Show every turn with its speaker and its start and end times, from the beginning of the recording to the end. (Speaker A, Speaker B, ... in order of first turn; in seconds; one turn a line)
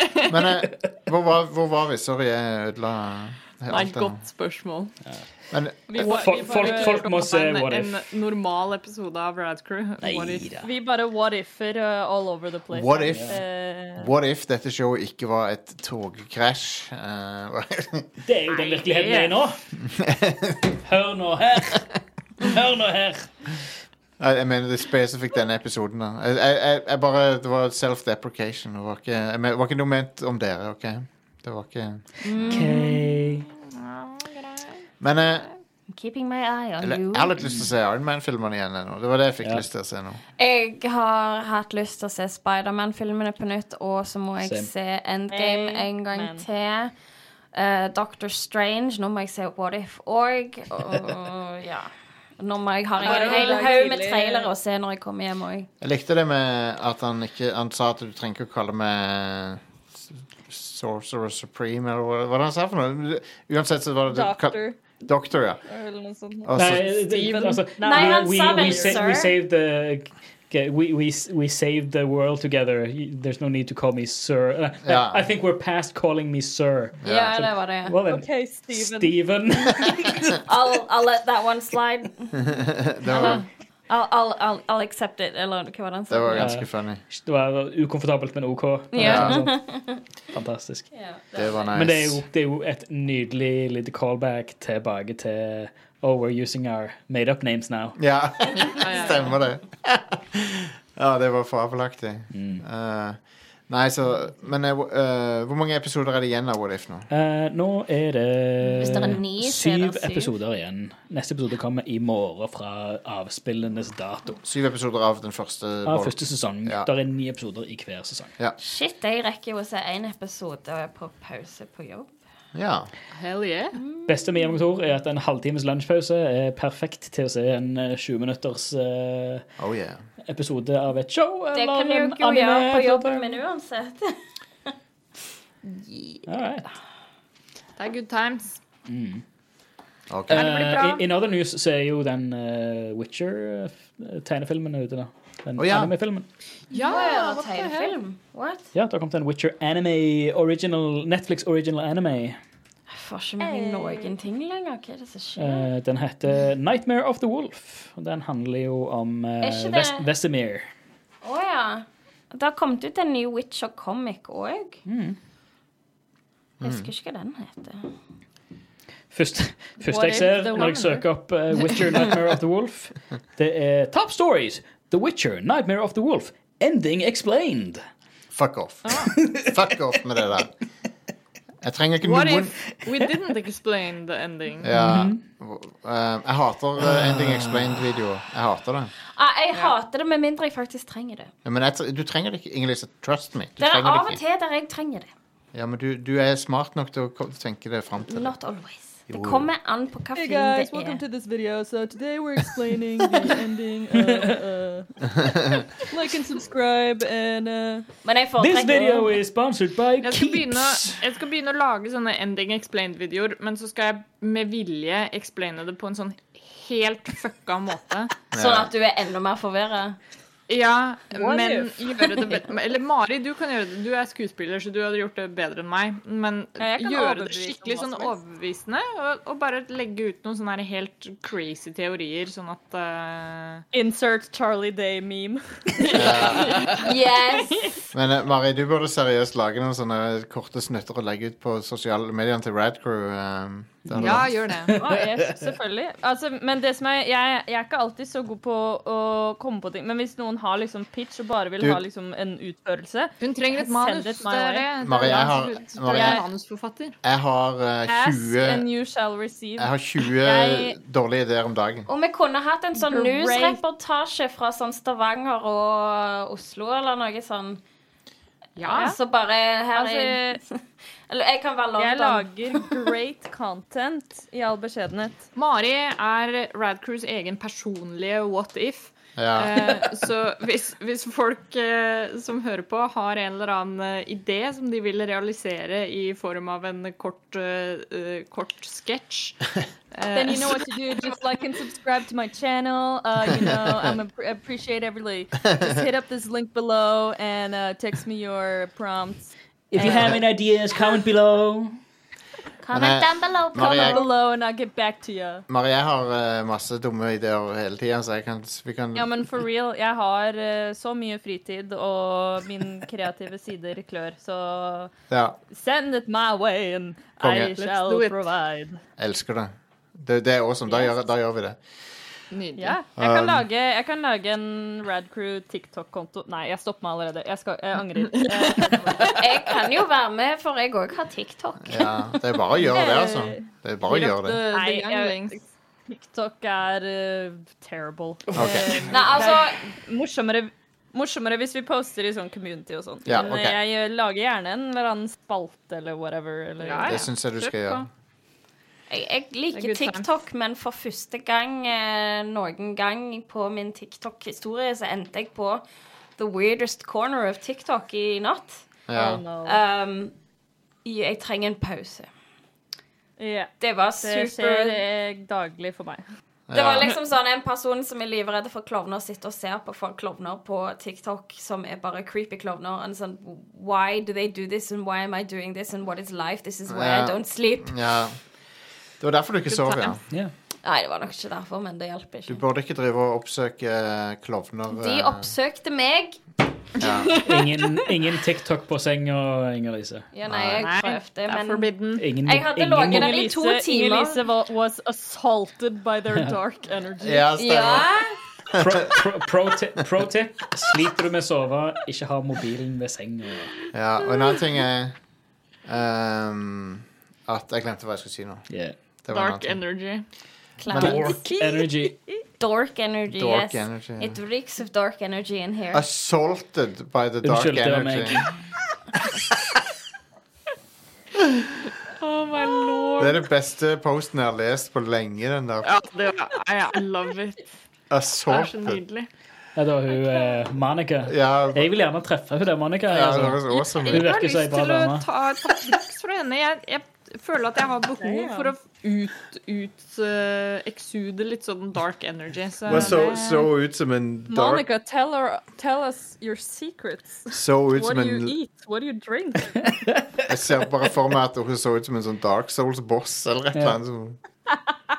Speaker A: 0.3-4.2
Speaker B: 3.7-5.0
Speaker C: 5.1-5.3
Speaker A: 5.5-6.0
Speaker D: 5.9-7.3
Speaker B: 5.9-10.5
Speaker C: 5.9-8.1
Speaker C: 10.0-10.7
Speaker D: 10.6-14.1
Speaker A: 12.7-18.2
Speaker C: 13.1-13.3
Speaker C: 18.2-19.6
Speaker B: 18.5-19.4
Speaker A: 19.8-20.8
Speaker C: 20.8-23.7
Speaker A: 24.2-32.1
Speaker E: 32.2-32.9
Speaker C: 32.5-33.5
Speaker B: 32.5-35.5
Speaker A: 35.0-35.5
Speaker E: 35.9-37.4
Speaker A: 36.8-40.2
Speaker E: 40.4-46.9
Speaker C: 44.4-44.7
Speaker D: 45.3-46.5
Speaker E: 47.5-55.7
Speaker D: 53.0-54.5
Speaker B: 53.0-53.6
Speaker A: 55.8-65.6
Speaker D: 64.1-65.0
Speaker D: 65.7-69.0
Speaker A: 66.4-66.9
Speaker C: 66.5-80.4
Speaker B: 67.0-67.8
Speaker E: 67.8-69.3
Speaker A: 74.8-75.2
Speaker A: 77.0-77.3
Speaker E: 77.1-78.0
Speaker D: 78.0-79.3
Speaker E: 80.5-82.5
Speaker A: 82.5-83.4
Speaker D: 83.1-83.5
Speaker E: 83.1-86.6
Speaker A: 86.1-87.0
Speaker C: 86.3-90.9
Speaker E: 88.9-90.0
Speaker A: 89.0-89.4
Speaker E: 90.9-91.4
Speaker D: 91.3-91.7
Speaker A: 91.3-92.2
Speaker C: 91.7-98.0
Speaker A: 98.0-107.1
Speaker B: 98.8-99.2
Speaker C: 102.3-102.6
Speaker C: 107.1-114.4
Speaker E: 108.8-110.3
Speaker A: 114.4-116.9
Speaker C: 115.8-118.3
Speaker E: 118.6-122.1
Speaker A: 122.5-122.9
Speaker B: 123.1-123.8
Speaker E: 123.8-124.6
Speaker C: 124.1-129.5
Speaker A: 129.6-130.0
Speaker C: 130.3-133.4
Speaker E: 131.5-134.8
Speaker E: 135.7-136.2
Speaker C: 136.3-136.7
Speaker B: 137.8-138.6
Speaker C: 138.9-139.2
Speaker A: 140.1-140.5
Speaker C: 140.3-146.3
Speaker B: 140.4-141.0
Speaker A: 145.6-145.9
Speaker B: 146.7-148.0
Speaker E: 146.7-148.7
Speaker C: 148.7-152.4
Speaker E: 152.9-155.7
Speaker D: 153.4-154.2
Speaker C: 155.4-160.7
Speaker E: 159.4-160.1
Speaker E: 161.2-164.8
Speaker C: 164.9-165.2
Speaker A: 166.6-166.9
Speaker E: 166.6-167.9
Speaker C: 169.1-177.8
Speaker D: 169.8-171.1
Speaker A: 178.3-180.5
Speaker C: 179.2-179.6
Speaker A: 181.6-182.7
Speaker B: 182.0-184.7
Speaker A: 184.6-188.9
Speaker C: 184.8-185.2
Speaker C: 186.8-188.0
Speaker E: 189.1-191.3
Speaker A: 191.4-194.2
Speaker E: 193.6-195.1
Speaker A: 195.5-198.3
Speaker E: 198.1-201.0
Speaker A: 199.1-199.5
Speaker D: 200.2-205.1
Speaker C: 204.0-204.3
Speaker D: 205.8-207.9
Speaker E: 208.0-209.2
Speaker C: 208.4-211.0
Speaker B: 210.0-218.1
Speaker A: 218.3-218.7
Speaker E: 218.3-220.0
Speaker B: 220.5-233.7
Speaker E: 221.2-222.1
Speaker D: 226.6-228.2
Speaker D: 233.7-236.8
Speaker B: 235.9-236.8
Speaker A: 235.9-236.6
Speaker E: 236.7-237.9
Speaker A: 237.9-244.3
Speaker C: 243.9-245.4
Speaker B: 244.0-244.7
Speaker D: 244.8-254.7
Speaker E: 244.8-245.1
Speaker B: 253.2-257.0
Speaker A: 254.8-256.2
Speaker D: 255.9-256.2
Speaker A: 257.0-258.7
Speaker D: 257.9-260.8
Speaker A: 259.6-261.9
Speaker E: 261.9-267.6
Speaker D: 262.8-263.6
Speaker B: 268.6-268.9
Speaker E: 268.7-272.8
Speaker D: 268.7-269.0
Speaker D: 269.7-270.4
Speaker D: 271.8-275.3
Speaker B: 275.4-291.2
Speaker A: 279.2-279.7
Speaker D: 290.1-300.3
Speaker C: 299.7-301.8
Speaker A: 299.8-300.2
Speaker E: 302.6-304.1
Speaker A: 302.7-304.0
Speaker D: 303.6-305.4
Speaker A: 305.5-309.1
Speaker D: 308.9-314.9
Speaker A: 315.1-315.4
Speaker D: 315.5-318.8
Speaker A: 317.2-317.5
Speaker B: 317.6-318.2
Speaker A: 319.0-321.9
Speaker B: 322.3-322.8
Speaker D: 322.6-329.2
Speaker A: 323.0-323.4
Speaker B: 328.0-329.1
Speaker E: 329.1-332.0
Speaker A: 331.6-334.4
Speaker D: 332.7-333.5
Speaker B: 333.9-335.4
Speaker D: 334.5-347.1
Speaker C: 338.3-339.2
Speaker A: 338.4-338.8
Speaker E: 338.9-339.7
Speaker A: 343.1-343.6
Speaker B: 346.6-347.9
Speaker A: 346.9-347.9
Speaker E: 348.9-355.6
Speaker B: 349.5-350.1
Speaker E: 356.2-358.8
Speaker A: 358.9-359.2
Speaker D: 358.9-359.6
Speaker E: 359.4-360.1
Speaker E: 360.8-362.1
Speaker D: 363.2-366.0
Speaker E: 363.6-364.8
Speaker A: 366.5-366.9
Speaker E: 366.5-377.8
Speaker A: 376.7-378.2
Speaker A: 379.0-380.0
Speaker B: 379.5-380.0
Speaker E: 380.6-382.4
Speaker A: 382.3-385.4
Speaker E: 384.7-386.3
Speaker A: 386.8-387.2
Speaker C: 387.2-390.1
Speaker E: 390.1-391.7
Speaker A: 390.3-390.6
Speaker B: 390.6-392.1
Speaker C: 392.0-393.2
Speaker E: 392.2-394.2
Speaker D: 392.8-397.3
Speaker A: 397.0-398.0
Speaker E: 397.4-398.2
Speaker A: 398.5-398.9
Speaker C: 398.6-403.5
Speaker A: 403.7-405.0
Speaker A: 405.6-410.0
Speaker C: 408.5-408.8
Speaker B: 409.1-410.1
Speaker E: 410.6-411.6
Speaker A: 410.7-411.0
Speaker C: 410.7-412.0
Speaker D: 411.1-412.3
Speaker E: 412.3-415.8
Speaker A: 413.1-414.2
Speaker A: 415.7-418.2
Speaker C: 417.2-418.3
Speaker B: 421.9-423.2
Speaker A: 423.0-425.7
Speaker B: 425.6-427.6
Speaker A: 427.9-428.8
Speaker B: 428.3-429.1
Speaker C: 429.6-435.1
Speaker A: 431.1-431.7
Speaker A: 432.9-434.1
Speaker B: 433.5-443.4
Speaker D: 438.0-438.6
Speaker A: 442.7-444.6
Speaker D: 442.7-443.4
Speaker D: 444.3-449.8
Speaker A: 447.3-448.3
Speaker C: 449.8-450.3
Speaker A: 450.3-454.2